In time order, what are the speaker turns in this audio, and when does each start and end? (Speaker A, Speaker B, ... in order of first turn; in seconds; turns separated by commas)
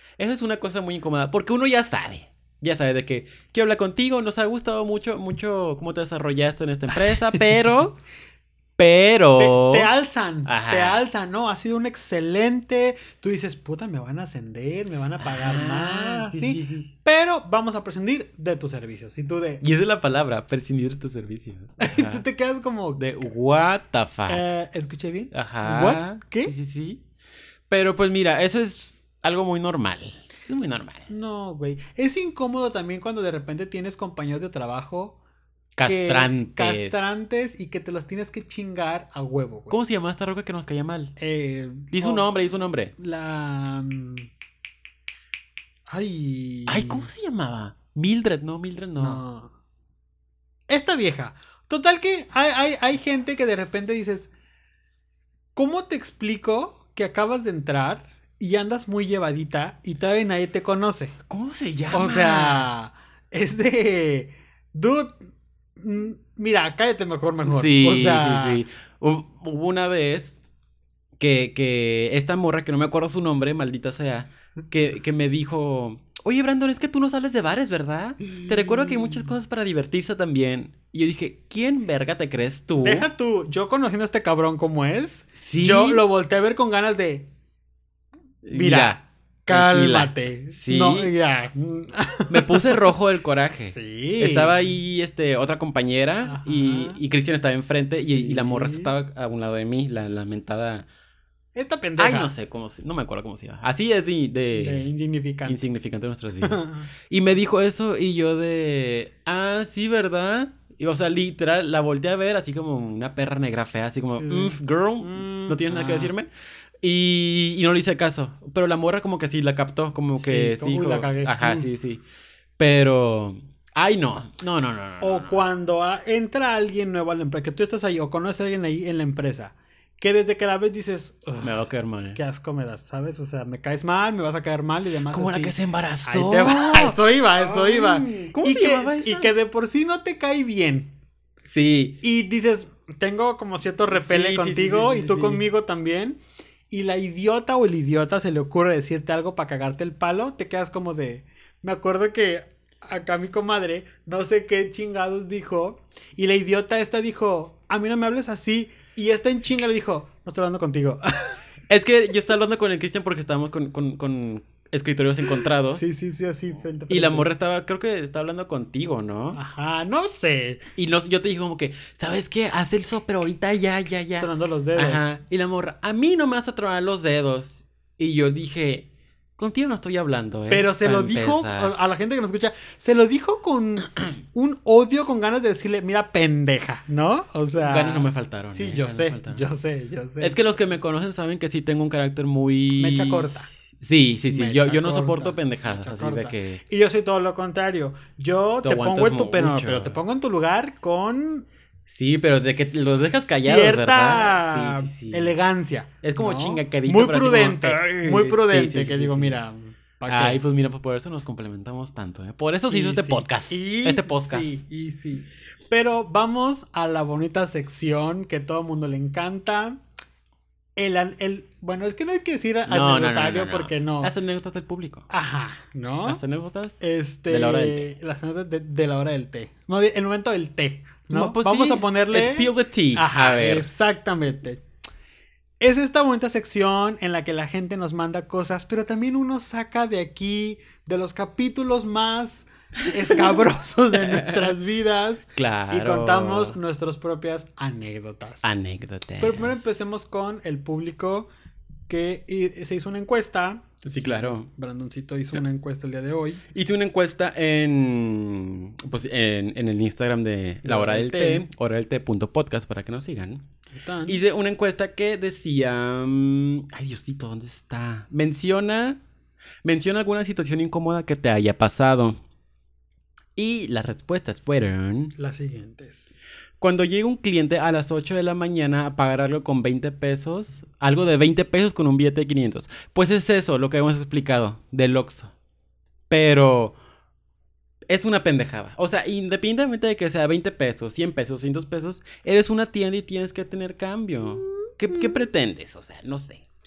Speaker A: 0.2-8.0, Speaker A: 8.8-9.9, Speaker B: 9.4-19.6, Speaker A: 10.4-11.0, Speaker A: 15.2-16.9, Speaker A: 19.6-22.2, Speaker B: 21.8-23.1, Speaker A: 23.0-24.5, Speaker B: 24.3-26.5, Speaker A: 25.3-27.0, Speaker A: 27.7-31.1, Speaker B: 31.1-35.2, Speaker A: 35.8-37.2, Speaker B: 35.8-39.8, Speaker A: 39.7-41.1, Speaker B: 41.2-42.4, Speaker A: 41.9-42.9, Speaker B: 42.9-44.3, Speaker B: 45.9-47.1, Speaker A: 46.7-49.2, Speaker B: 49.0-49.5, Speaker B: 50.7-54.3, Speaker B: 55.5-61.2, Speaker A: 61.3-62.7, Speaker B: 61.9-65.2, Speaker B: 65.8-68.6, Speaker A: 67.5-70.4, Speaker A: 71.2-83.1, Speaker B: 78.5-79.3, Speaker B: 82.8-87.3, Speaker A: 85.3-86.0, Speaker A: 88.4-91.1, Speaker B: 88.5-92.9, Speaker A: 92.3-100.9, Speaker B: 93.6-94.6, Speaker B: 96.2-97.0, Speaker B: 98.0-98.9, Speaker B: 101.5-102.3, Speaker A: 102.0-104.9, Speaker B: 104.5-105.6, Speaker A: 105.5-116.3, Speaker B: 106.4-106.9, Speaker B: 114.2-116.1, Speaker A: 116.8-122.0, Speaker B: 120.2-121.7, Speaker A: 122.6-125.4, Speaker B: 125.0-131.6, Speaker A: 131.4-132.2, Speaker B: 132.2-140.9, Speaker A: 135.1-139.3, Speaker A: 141.4-142.0, Speaker B: 142.0-161.4, Speaker A: 143.9-145.4, Speaker A: 161.7-165.9, Speaker B: 165.4-167.3, Speaker A: 166.9-169.4, Speaker B: 169.3-170.6, Speaker A: 170.8-181.7, Speaker B: 174.2-175.1, Speaker B: 180.5-190.4, Speaker A: 187.6-189.4, Speaker A: 190.2-193.3, Speaker B: 192.8-193.5, Speaker A: 193.8-196.6, Speaker B: 194.3-201.5, Speaker A: 198.6-200.0, Speaker A: 201.9-205.3, Speaker B: 202.4-210.4, Speaker A: 206.0-209.4, Speaker A: 210.1-214.5, Speaker B: 212.7-219.8, Speaker B: 220.8-224.1, Speaker A: 222.7-225.1, Speaker B: 225.1-226.2, Speaker A: 226.1-227.9, Speaker B: 226.8-234.6, Speaker A: 231.1-233.7, Speaker B: 235.6-248.5, Speaker A: 243.0-243.4, Speaker A: 244.0-244.5, Speaker A: 245.4-246.6, Speaker A: 248.4-249.7, Speaker B: 249.2-251.3, Speaker B: 251.9-256.4, Speaker A: 253.8-254.5, Speaker A: 256.5-263.4, Speaker B: 260.6-261.5, Speaker B: 263.7-264.2, Speaker A: 264.1-269.0, Speaker A: 269.6-272.2, Speaker A: 273.4-275.1, Speaker B: 275.2-276.1, Speaker A: 276.6-285.3, Speaker A: 286.1-286.8, Speaker A: 287.9-296.4, Speaker B: 294.9-295.2